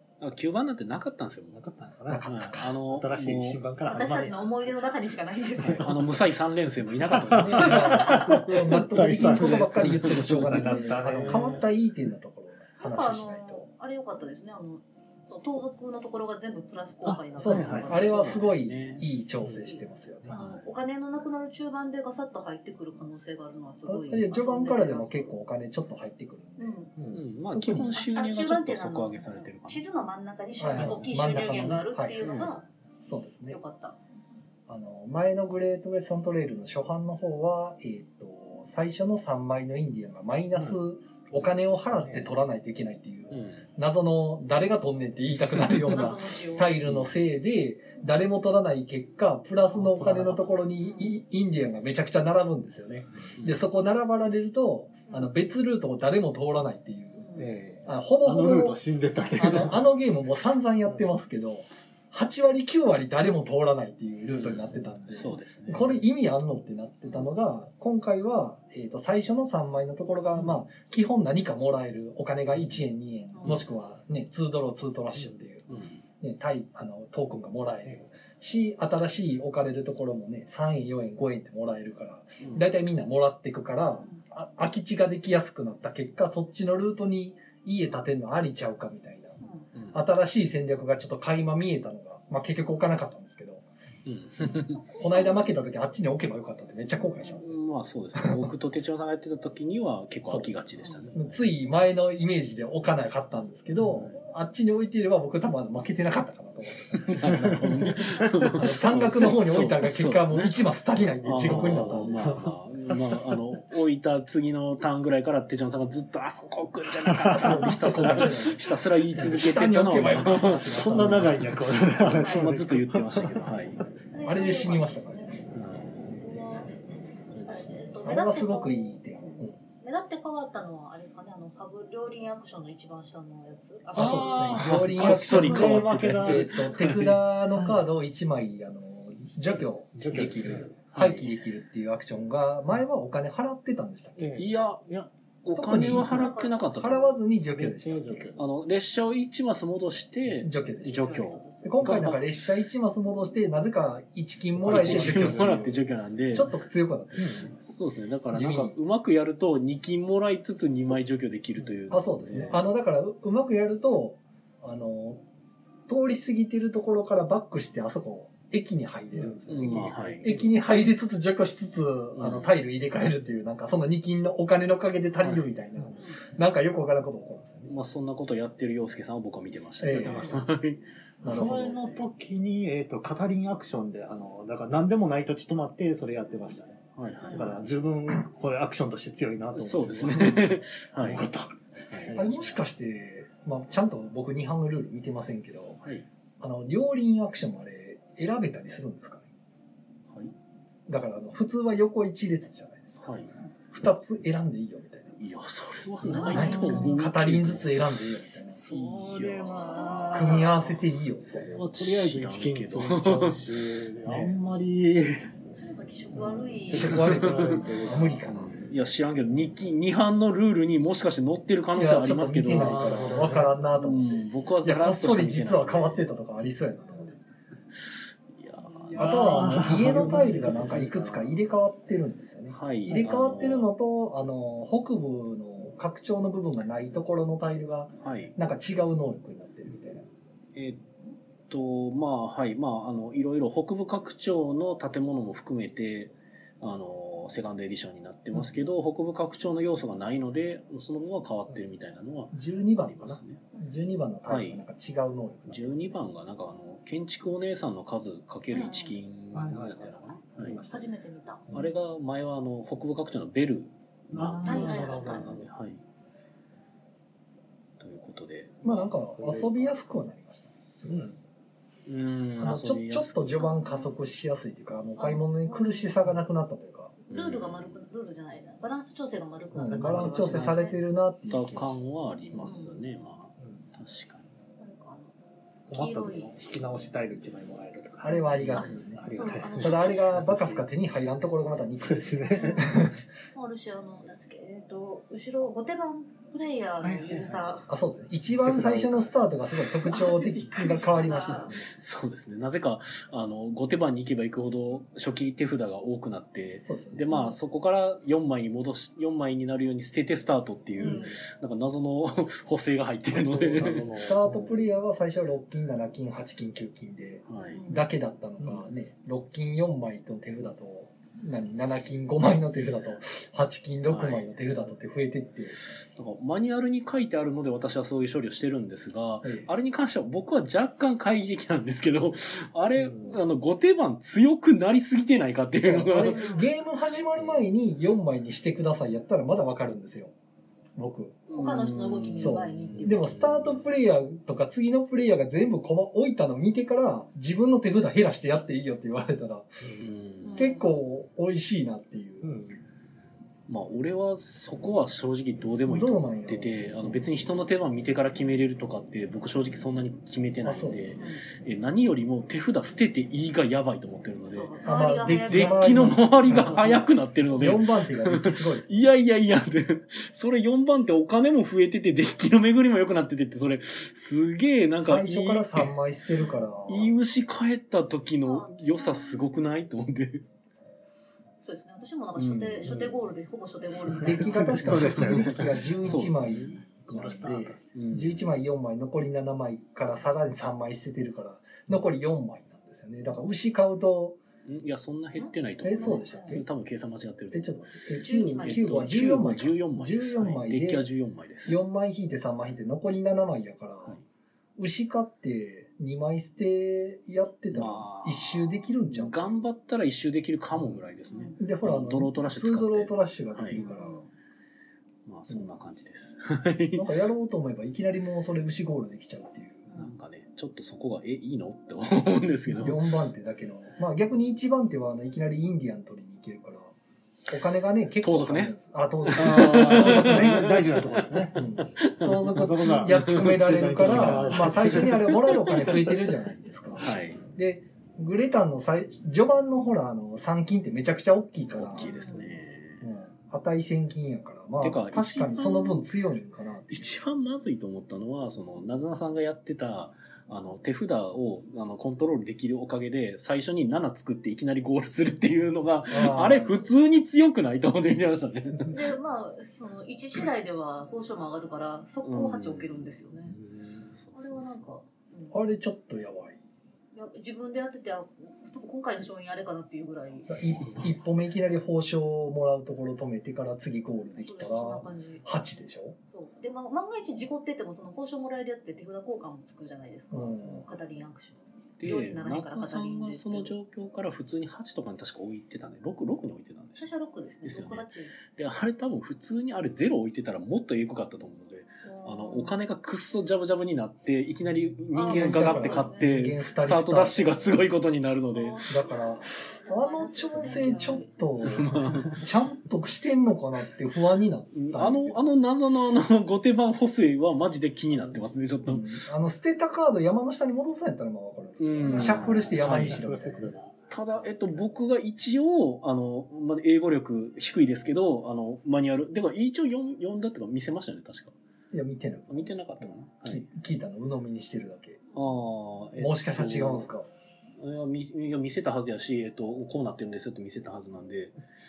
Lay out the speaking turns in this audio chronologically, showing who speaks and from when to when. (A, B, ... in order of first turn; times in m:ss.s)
0:00.2-0:01.6 A
0:01.5-0:04.8 B
0:02.1-0:02.7 C
0:02.2-0:03.6 A
0:03.8-0:06.0 D
0:05.3-0:06.1 B
0:05.6-0:08.8 A
0:07.1-0:11.6 B
0:07.4-0:13.6 C
0:09.8-0:10.6 A
0:11.2-0:11.5 A
0:12.8-0:18.4 D
0:17.0-0:18.1 B
0:17.4-0:20.4 C
0:17.5-0:19.0 A
0:19.4-0:20.3 B
0:20.3-0:20.7 A
0:20.3-0:25.3 D
0:23.8-0:26.8 C
0:26.6-0:26.9 D
0:27.0-0:27.2 B
0:27.1-0:29.8 A
0:27.5-0:27.9 C
0:27.9-0:32.6 D
0:30.6-0:32.4 C
0:30.7-0:31.1 B
0:32.2-0:32.7 A
0:33.0-0:33.6 C
0:33.5-0:34.0 D
0:34.7-0:57.3 C
0:40.5-0:40.8 B
0:41.9-0:42.4 B
0:43.3-0:43.6 A
0:45.8-0:46.7 D
0:49.7-0:50.6 B
0:50.8-0:51.2 D
0:53.3-0:53.6 A
0:57.2-0:57.5 D
0:57.4-0:59.8 B
0:57.8-0:58.8 C
0:59.4-1:15.6 C
1:04.3-1:05.9 A
1:10.3-1:10.6 B
1:13.3-1:13.6 D
1:15.7-1:16.0 A
1:16.2-1:29.4 C
1:29.4-1:29.7 D
1:29.7-1:30.0 A
1:29.9-1:33.6 C
1:34.0-1:34.8 A
1:34.4-1:37.5 C
1:35.0-1:35.5 D
1:37.4-1:41.4 A
1:38.1-1:38.5 C
1:40.2-1:40.5 C
1:41.1-1:47.8 C
1:43.9-1:44.1 A
1:47.0-1:50.6 A
1:47.2-1:48.5 B
1:48.5-1:52.3 C
1:51.2-1:52.5 B
1:51.2-2:01.1 A
1:57.2-1:58.2 B
1:57.3-2:01.5 C
2:00.6-2:03.8 B
2:02.0-2:02.6 D
2:02.1-2:03.9 A
2:04.1-2:05.3 D
2:04.2-2:05.4 C
2:05.5-2:06.1 A
2:06.2-2:14.6 D
2:08.0-2:09.6 C
2:13.9-2:17.8 B
2:13.9-2:24.3 C
2:14.1-2:17.0 A
2:19.5-2:20.7 B
2:20.9-2:21.3 A
2:24.2-2:25.1 B
2:24.4-2:24.8 A
2:25.4-2:27.2 A
2:25.6-2:28.3 C
2:26.0-2:26.6 D
2:27.4-2:28.4 B
2:28.4-2:32.2 A
2:30.4-2:35.8 C
2:30.8-2:32.0 D
2:34.6-2:35.7 B
2:34.6-2:36.5 A
2:36.3-2:37.6 C
2:37.2-2:37.5 B
2:37.6-2:42.6 A
2:38.3-2:38.7 C
2:41.6-2:42.6 B
2:41.9-2:45.2 C
2:45.9-2:57.7 C
2:49.1-2:50.4 B
2:49.5-2:50.4 A
2:52.1-2:52.5 A
2:57.7-3:01.4 A
2:59.8-3:00.3 C
3:01.2-3:02.0 C
3:01.2-3:12.6 B
3:07.0-3:07.6 A
3:07.2-3:07.5 D
3:09.5-3:11.2 A
3:11.9-3:12.2 A
3:12.1-3:15.8 C
3:16.4-3:19.2 C
3:20.9-3:23.1 C
3:23.0-3:23.3 A
3:23.7-3:25.1 C
3:25.2-3:27.9 A
3:26.0-3:27.0 B
3:26.0-3:26.9 D
3:26.2-3:28.6 C
3:28.5-3:35.3 B
3:28.6-3:29.9 A
3:29.6-3:30.6 D
3:30.1-3:31.6 C
3:31.5-3:33.5 A
3:35.5-3:38.0 D
3:36.6-3:38.3 B
3:36.7-3:38.5 C
3:36.8-3:37.6 A
3:38.3-3:46.1 A
3:41.7-3:47.2 C
3:42.5-3:44.0 B
3:48.3-3:49.4 A
3:48.7-3:49.1 D
3:48.9-3:51.4 B
3:48.9-4:00.1 C
3:52.5-3:53.7 A
3:58.0-3:58.3 A
4:00.5-4:00.8 A
4:01.5-4:13.4 A
4:12.3-4:16.0 C
4:14.3-4:14.6 A
4:15.5-4:20.6 A
4:18.5-4:18.9 D
4:19.3-4:20.9 B
4:20.6-4:21.4 D
4:21.5-4:21.7 B
4:21.5-4:25.8 A
4:24.1-4:25.5 B
4:24.4-4:25.4 D
4:27.8-4:28.8 A
4:28.6-4:31.2 C
4:29.1-4:29.7 B
4:30.9-4:31.2 B
4:31.9-4:33.5 A
4:32.4-4:36.9 C
4:33.4-4:33.9 D
4:35.0-4:36.1 D
4:37.1-4:40.8 D
4:37.1-4:37.8 A
4:39.5-4:41.8 C
4:39.6-4:40.6 B
4:41.3-4:44.2 A
4:42.3-4:42.8 D
4:44.6-4:45.1 D
4:45.7-4:46.3 D
4:45.7-4:50.6 B
4:48.0-4:49.0 C
4:48.5-4:50.1 D
4:49.5-4:53.0 C
4:51.8-4:52.9 B
4:52.3-4:52.7 D
4:53.3-4:57.7 D
4:56.8-4:57.6 B
4:57.7-5:01.6 C
4:58.4-4:59.1 B
4:59.8-5:01.6 D
5:01.2-5:01.6 B
5:01.8-5:13.8 A
5:06.6-5:07.0 C
5:07.1-5:07.4 D
5:10.8-5:11.1 D
5:10.8-5:11.2 B
5:13.1-5:14.6 B
5:14.0-5:25.6 C
5:17.2-5:17.6 A
5:17.5-5:17.9 D
5:18.4-5:18.7 B
5:23.9-5:24.6 A
5:25.7-5:36.3 A
5:29.2-5:29.5 C
5:32.8-5:33.1 B
5:35.6-5:40.1 C
5:36.0-5:36.5 D
5:40.8-5:41.2 C
5:41.3-5:43.7 A
5:41.3-5:43.1 D
5:42.2-5:49.6 C
5:49.8-5:50.4 A
5:50.2-5:50.7 D
5:50.3-5:52.3 C
5:52.2-5:52.6 B
5:53.5-6:04.5 A
5:55.7-5:56.6 C
6:00.4-6:00.9 C
6:01.0-6:01.2 D
6:04.3-6:06.7 D
6:04.6-6:08.8 C
6:05.3-6:15.7 A
6:14.8-6:16.9 C
6:16.7-6:20.2 A
6:18.2-6:19.4 D
6:21.4-6:24.8 D
6:22.2-6:23.0 A
6:23.9-6:25.7 B
6:24.0-6:34.2 C
6:24.6-6:26.6 A
6:26.9-6:27.6 B
6:27.7-6:28.3 A
6:34.4-6:37.6 A
6:35.2-6:36.4 D
6:35.6-6:36.4 C
6:37.3-6:40.8 C
6:38.0-6:38.9 D
6:38.4-6:41.6 A
6:41.4-6:44.0 C
6:44.6-6:49.4 C
6:47.5-6:53.6 A
6:51.1-6:51.4 D
6:51.4-6:54.0 C
6:53.5-6:54.0 D
6:55.0-6:56.9 A
6:56.8-6:59.7 C
6:59.7-6:59.9 D
6:59.8-7:02.9 A
7:02.6-7:06.7 C
7:07.3-7:10.5 C
7:08.0-7:11.0 A
7:09.1-7:11.4 B
7:11.3-7:21.9 C
7:11.6-7:16.0 A
7:12.3-7:14.9 B
7:16.8-7:17.2 A
7:21.5-7:22.9 A
7:21.8-7:22.4 D
7:22.8-7:26.9 C
7:24.6-7:25.7 A
7:25.4-7:25.8 D
7:26.7-7:38.8 A
7:35.9-7:36.7 C
7:38.7-7:43.4 D
7:42.0-7:44.6 A
7:44.1-7:45.4 D
7:45.3-7:46.4 C
7:46.9-7:50.4 D
7:50.3-7:56.0 C
7:54.2-7:55.2 D
7:56.1-8:03.5 D
8:00.1-8:00.6 C
8:01.8-8:06.9 A
8:06.8-8:08.1 D
8:07.4-8:18.6 A
8:11.8-8:12.6 D
8:14.9-8:16.1 D
8:15.0-8:17.6 C
8:18.3-8:21.1 D
8:18.7-8:25.2 C
8:21.4-8:22.2 A
8:24.5-8:29.0 A
8:28.6-8:33.5 C
8:31.6-8:33.0 A
8:32.0-8:33.8 B
8:33.9-8:41.3 A
8:41.7-8:45.0 C
8:42.3-8:43.4 A
8:45.1-8:46.9 A
8:46.0-8:47.1 C
8:47.6-8:51.3 A